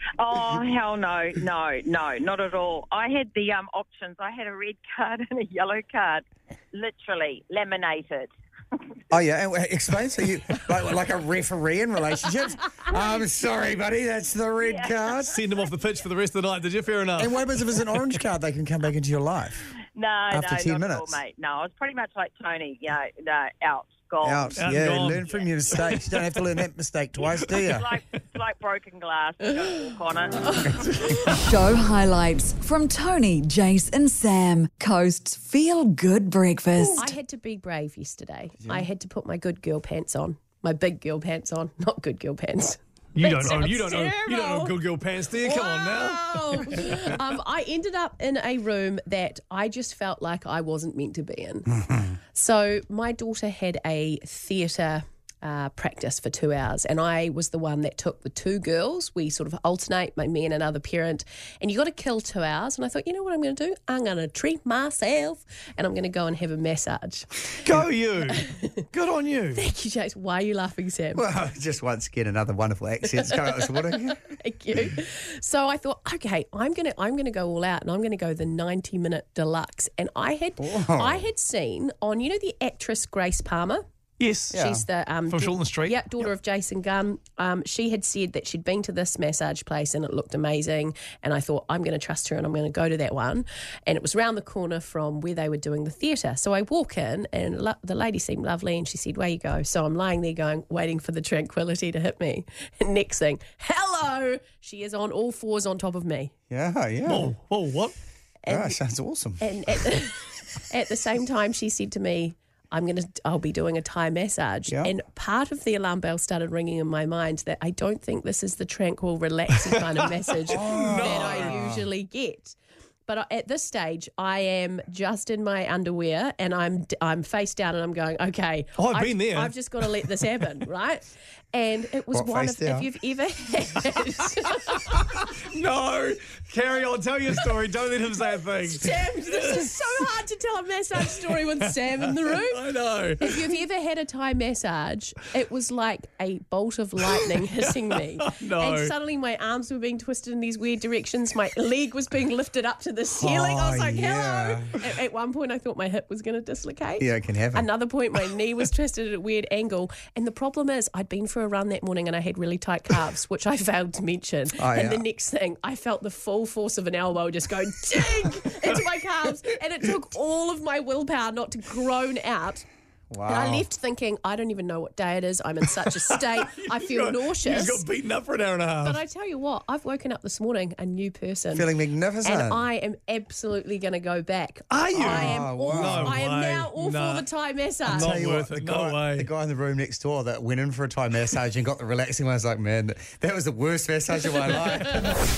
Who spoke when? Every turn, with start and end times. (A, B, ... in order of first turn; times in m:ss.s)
0:00.2-0:08.3 A
0:09.1-0:15.4 B
0:14.6-0:15.1 A
0:15.3-0:17.5 C
0:17.2-0:19.6 B
0:19.9-0:25.8 A
0:20.3-0:21.2 B
0:24.2-0:27.9 B
0:24.6-0:26.2 C
0:27.6-0:30.6 A
0:31.2-0:37.1 D
0:36.9-0:44.8 E
0:43.1-0:46.8 C
0:45.4-1:07.4 E
1:07.6-1:09.7 C
1:08.4-1:08.7 E
1:09.5-1:11.2 E
1:11.1-1:14.3 B
1:13.2-1:23.8 E
1:20.6-1:21.3 B
1:24.2-1:24.6 C
1:24.5-1:24.8 B
1:24.5-1:46.3 E
1:25.3-1:26.0 C
1:46.5-1:47.3 B
1:47.1-1:47.9 C
1:48.4-1:48.8 E
1:48.5-1:49.5 B
1:49.4-2:02.6 E
1:54.7-1:54.9 B
2:00.4-2:01.6 C
2:00.5-2:01.9 B
2:03.1-2:15.1 E
2:08.8-2:09.5 C
2:12.1-2:12.9 B
2:15.5-2:19.8 C
2:18.6-2:22.6 E
2:21.0-2:23.5 C
2:23.2-2:52.6 E
2:27.6-2:28.9 C
2:33.2-2:34.7 B
2:37.0-2:37.7 B
2:44.6-2:45.0 B
2:53.1-2:53.6 B
2:53.2-2:57.8 E
2:56.4-2:59.0 C
2:58.8-3:01.7 E
3:01.5-3:02.6 B
3:02.2-3:08.1 E
3:04.7-3:07.2 C
3:04.9-3:06.2 B
3:07.8-3:09.3 C
3:07.9-3:15.3 B